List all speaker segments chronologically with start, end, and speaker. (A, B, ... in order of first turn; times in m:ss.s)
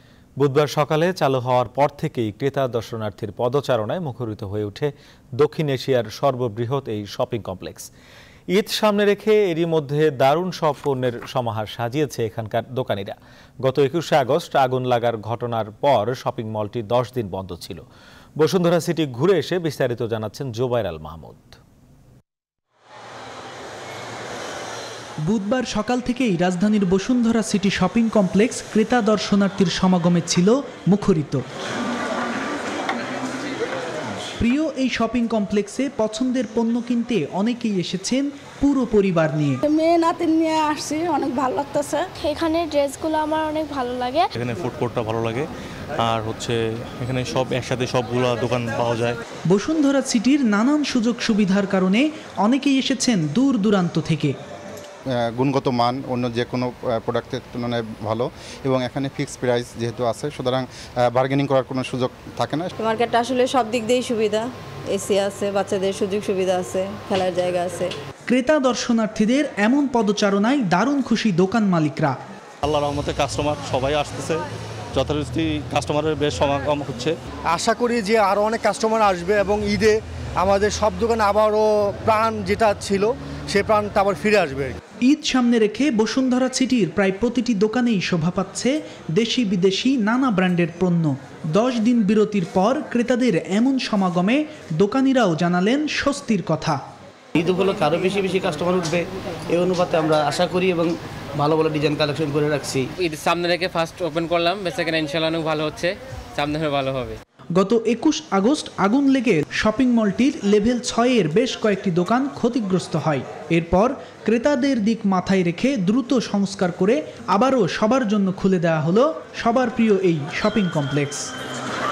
0:00.4-0:07.9 A
0:08.5-0:17.8 A
0:18.4-0:21.6 A
0:25.2-0:31.4 B
0:34.4-0:39.6 B
0:39.6-0:42.1 C
0:42.2-0:44.3 D
0:44.4-0:49.2 E
0:49.5-0:54.3 B
0:55.3-1:02.7 F
1:02.8-1:07.9 G
1:08.3-1:12.2 B
1:12.6-1:17.1 E
1:17.5-1:24.8 H
1:25.0-1:36.8 B
1:37.4-1:42.8 I
1:43.0-1:47.2 J
1:47.6-2:01.3 B